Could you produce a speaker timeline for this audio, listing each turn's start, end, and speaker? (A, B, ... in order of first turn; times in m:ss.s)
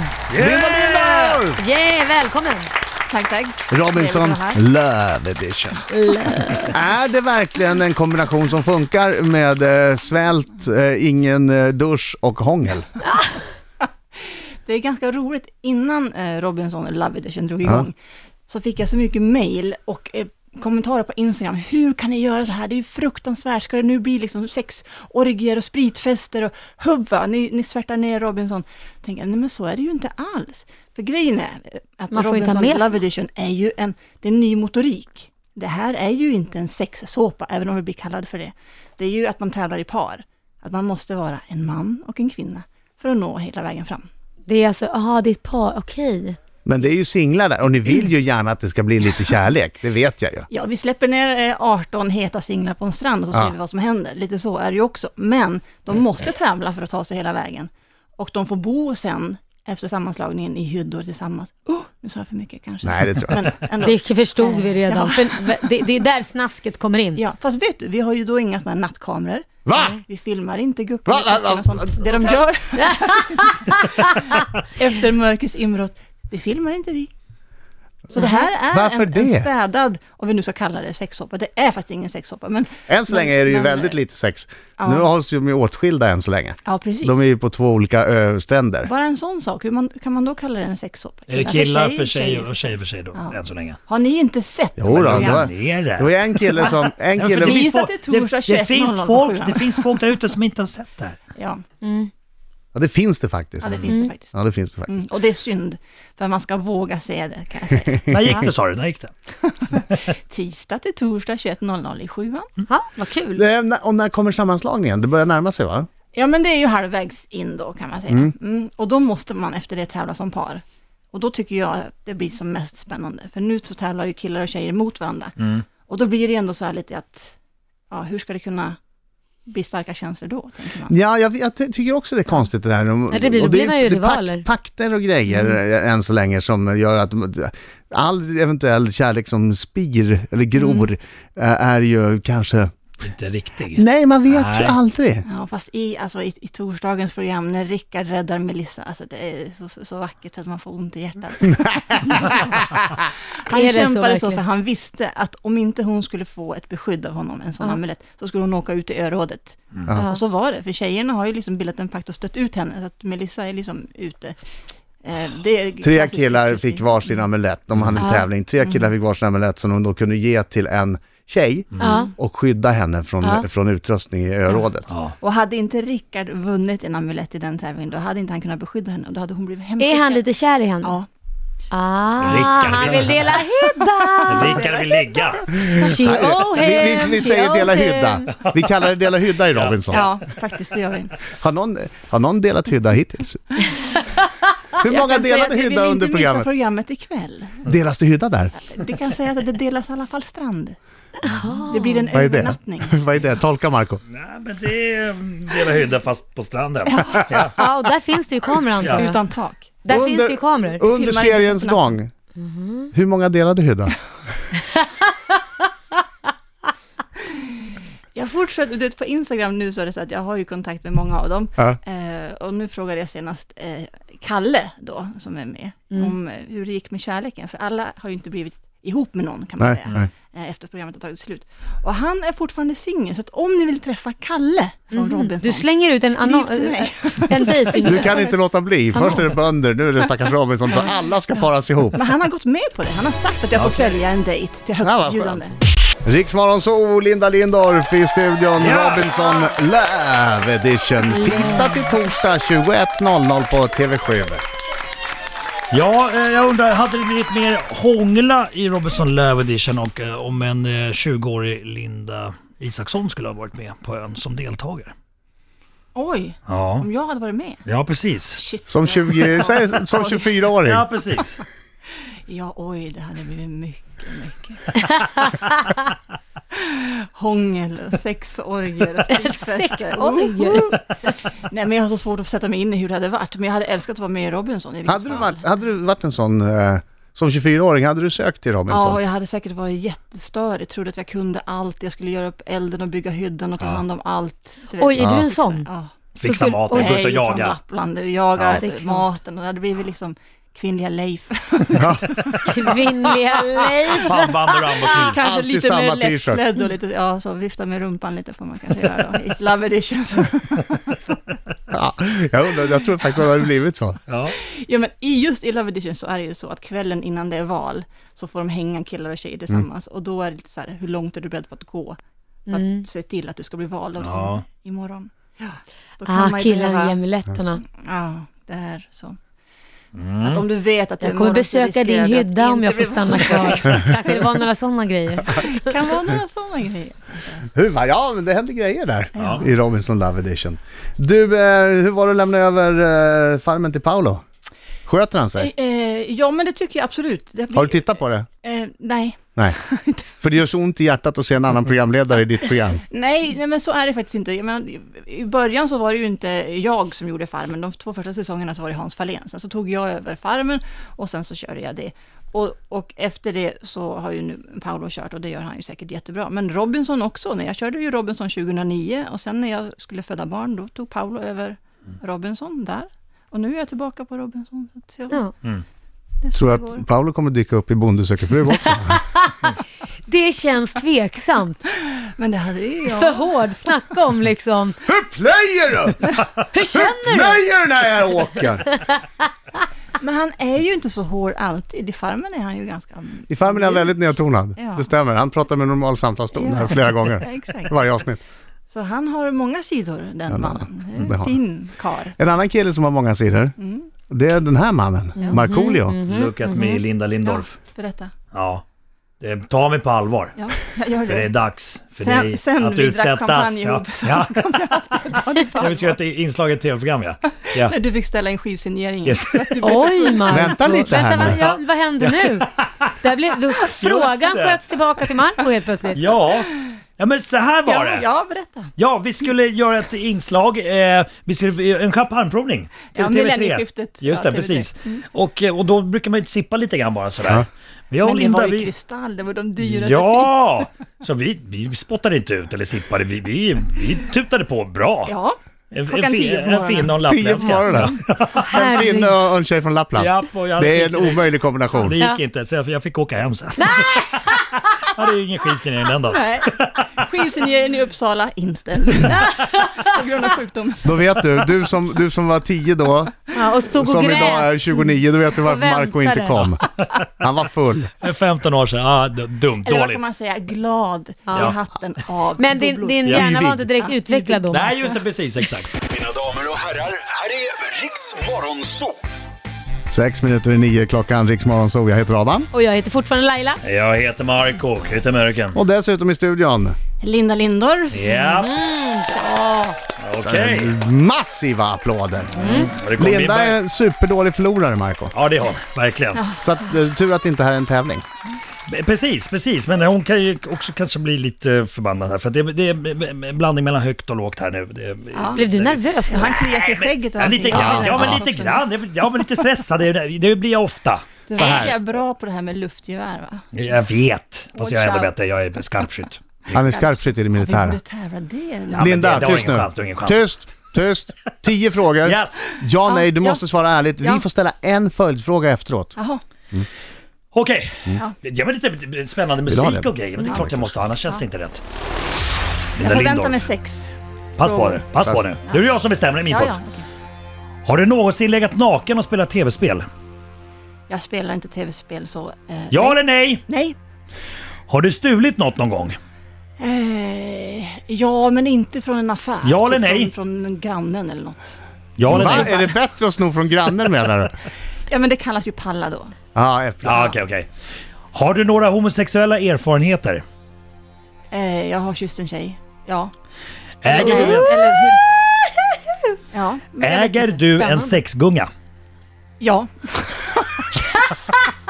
0:00.3-0:01.4 A
0:00.3-0:01.6 B
0:01.5-0:02.7 C
0:03.1-0:04.6 D
0:03.7-0:05.9 B
0:05.9-0:06.8 D
0:06.6-0:12.9 B
0:14.6-0:18.0 D
0:18.5-0:44.1 D
0:32.1-0:33.0 C
0:44.5-0:46.4 C
0:46.6-0:50.5 B
0:50.5-1:05.6 D
1:02.8-1:03.5 B
1:03.8-1:07.2 C
1:07.2-1:17.1 D
1:09.6-1:10.0 B
1:11.1-1:12.2 B
1:12.8-1:14.1 C
1:18.1-1:19.5 B
1:18.1-1:24.0 D
1:22.9-1:28.9 B
1:24.8-1:25.1 D
1:26.6-1:27.2 D
1:28.8-1:32.6 D
1:31.3-1:33.8 A
1:33.1-1:35.5 D
1:34.8-1:37.7 B
1:34.9-1:41.2 A
1:37.4-1:40.1 D
1:41.3-1:41.6 D
1:41.8-1:42.1 C
1:42.7-1:45.1 B
1:43.6-1:44.3 D
1:43.8-1:44.1 C
1:44.8-1:48.4 D
1:48.1-1:49.1 A
1:49.4-1:52.5 D
1:52.7-1:53.4 C
1:53.3-1:55.9 B
1:56.1-2:07.3 D
2:05.4-2:05.6 A
2:07.9-2:08.8 D
2:09.5-2:11.0 D
2:10.9-2:22.7 B
2:13.1-2:14.4 C
2:23.0-2:24.8 A
2:23.7-2:25.2 B
2:25.2-2:44.4 D
2:33.5-2:34.4 C
2:39.9-2:40.2 C
2:45.0-2:47.1 D
2:45.8-2:54.9 B
2:48.0-2:48.2 C
2:48.6-2:48.9 D
2:51.8-2:52.1 C
2:54.9-2:55.1 A
2:55.2-3:00.2 D
2:59.8-3:01.0 C
3:01.7-3:04.7 C
3:02.2-3:03.3 A
3:03.2-3:04.9 D
3:04.3-3:05.5 A
3:05.5-3:08.3 C
3:05.8-3:10.1 B
3:08.3-3:08.9 A
3:09.5-3:10.2 A
3:09.9-3:11.1 D
3:11.4-3:13.6 B
3:14.8-3:16.5 B
3:14.8-3:17.7 D
3:17.6-3:18.5 B
3:18.6-3:20.8 D
3:21.2-3:22.0 C
3:21.7-3:23.0 D
3:22.1-3:24.0 B
3:24.1-3:27.6 A
3:26.9-3:27.2 D
3:27.5-3:29.2 C
3:28.8-3:29.1 A
3:28.8-3:29.8 D
3:29.8-3:30.8 C
3:29.9-3:32.1 B
3:30.8-3:31.9 D
3:32.4-3:32.9 C
3:32.9-3:34.0 B
3:34.6-3:34.9 C
3:38.1-3:58.4 D
3:49.6-3:50.1 B
3:54.9-3:58.1 C
3:57.8-4:02.0 B
3:58.9-3:59.2 C
4:00.7-4:05.6 D
4:03.5-4:03.9 A
4:04.8-4:05.4 B
4:06.0-4:14.4 B
4:08.6-4:09.1 A
4:11.1-4:11.8 C
4:15.7-4:24.9 A
4:25.9-4:27.6 D
4:26.5-4:26.8 A
4:27.6-4:28.4 A
4:28.3-4:30.2 D
4:28.7-4:30.8 B
4:30.2-4:31.4 A
4:32.3-4:35.2 D
4:36.5-4:45.4 D
4:39.1-4:40.7 C
4:44.9-4:49.0 B
4:48.7-4:55.9 D
4:54.8-4:55.7 C
4:55.0-4:55.3 B
4:56.2-4:57.6 A
4:56.2-4:57.0 C
4:56.7-5:02.4 D
4:58.5-4:59.0 C
5:01.8-5:02.1 B
5:02.4-5:05.0 C
5:04.0-5:05.2 A
5:05.1-5:11.0 D
5:05.2-5:06.4 B
5:11.7-5:14.0 B
5:14.1-5:14.3 A
5:14.4-5:27.0 D
5:22.5-5:22.8 C
5:24.0-5:24.4 A
5:26.0-5:27.6 C
5:27.7-5:29.2 D
5:29.9-5:30.4 A
5:30.2-5:34.2 D
5:31.0-5:35.7 C
5:35.3-5:37.4 D
5:37.5-5:44.2 B
5:39.1-5:39.5 D
5:44.9-5:45.5 B
5:45.4-5:50.1 D
5:47.5-5:48.3 B
5:50.2-5:52.8 B
5:52.8-6:15.3 D
6:16.2-6:16.8 D
6:16.3-6:19.0 B
6:18.9-6:19.5 C
6:20.1-6:21.6 C
6:21.8-6:23.2 D
6:22.8-6:24.8 C
6:24.8-6:26.1 B
6:26.5-6:27.4 C
6:26.7-6:28.7 B
6:30.0-6:33.9 D
6:33.3-6:38.2 B
6:34.5-6:34.9 D
6:36.3-6:37.8 D
6:38.7-6:42.2 D
6:40.3-6:41.4 B
6:42.2-6:43.5 B
6:43.6-6:43.9 D
6:44.1-6:46.0 B
6:45.2-6:46.8 C
6:46.0-6:47.6 A
6:47.2-6:48.1 D
6:48.3-6:48.6 A
6:49.2-6:50.4 A
6:50.4-6:51.3 D
6:51.0-6:54.6 A
6:52.0-6:56.0 D
6:55.6-6:57.8 A
6:57.4-7:00.9 D
6:59.0-6:59.6 A
6:59.6-7:02.5 C
7:00.3-7:01.4 B
7:01.2-7:02.9 A
7:03.0-7:06.0 C
7:03.6-7:04.6 A
7:05.9-7:08.0 A
7:07.6-7:08.7 D
7:08.8-7:18.7 A
7:12.9-7:15.0 D
7:18.0-7:20.6 D
7:19.6-7:25.1 A
7:25.0-7:25.4 D
7:25.7-7:28.5 A
7:25.9-7:28.0 D
7:27.0-7:28.0 B
7:28.5-7:29.1 C
7:28.5-7:31.9 B
7:30.0-7:36.9 A
7:33.6-7:34.7 C
7:36.1-7:41.5 D
7:39.2-7:39.9 C
7:40.8-7:43.2 B
7:43.3-7:44.6 C
7:43.8-7:46.6 B
7:45.4-7:46.5 C
7:47.2-7:47.9 B
7:48.0-7:50.0 A
7:49.6-7:53.2 D
7:51.3-7:51.6 C
7:52.4-7:54.7 C
7:53.1-7:53.6 B
7:53.8-7:54.9 D
7:54.5-7:55.7 A
7:55.9-7:59.0 E
7:59.9-8:02.5 B
8:02.5-8:03.6 C
8:03.6-8:05.6 A
8:05.5-8:06.8 B
8:07.0-8:08.4 D
8:07.9-8:08.6 A
8:08.3-8:09.1 C
8:09.0-8:09.8 D
8:10.0-8:10.7 A
8:10.2-8:15.1 B
8:12.3-8:13.6 A
8:12.4-8:12.7 C
8:15.1-8:16.2 A
8:16.1-8:16.6 D
8:16.4-8:18.0 B
8:18.7-8:31.7 A
8:25.1-8:25.4 D
8:25.4-8:26.4 C
8:26.1-8:28.7 D
8:27.5-8:28.2 B
8:31.3-8:33.4 D
8:31.3-8:31.8 B
8:33.5-8:36.6 A
8:34.6-8:35.2 D
8:36.5-8:39.5 D
8:36.5-8:37.8 B
8:38.7-8:40.3 A
8:38.8-8:46.0 B
8:42.0-8:42.5 A
8:42.8-8:43.4 D
8:46.0-8:46.2 D
8:47.3-8:51.6 A
8:49.5-8:50.8 B
8:52.8-8:53.4 A
8:52.8-8:54.8 D
8:54.4-8:56.6 A
8:56.3-8:56.8 D
8:57.6-8:59.9 A
9:00.9-9:03.8 D
9:02.7-9:03.4 A
9:04.7-9:06.0 A
9:06.6-9:12.7 D
9:09.4-9:10.1 A
9:12.0-9:12.6 A
9:12.1-9:14.3 B
9:14.9-9:16.1 D
9:16.3-9:17.1 B
9:16.8-9:17.5 A
9:18.1-9:20.2 A
9:21.3-9:23.1 D
9:23.8-9:24.7 A
9:23.8-9:25.0 D
9:24.0-9:24.4 C
9:26.3-9:27.6 D
9:26.8-9:28.5 A
9:27.5-9:27.9 C
9:29.4-9:30.8 D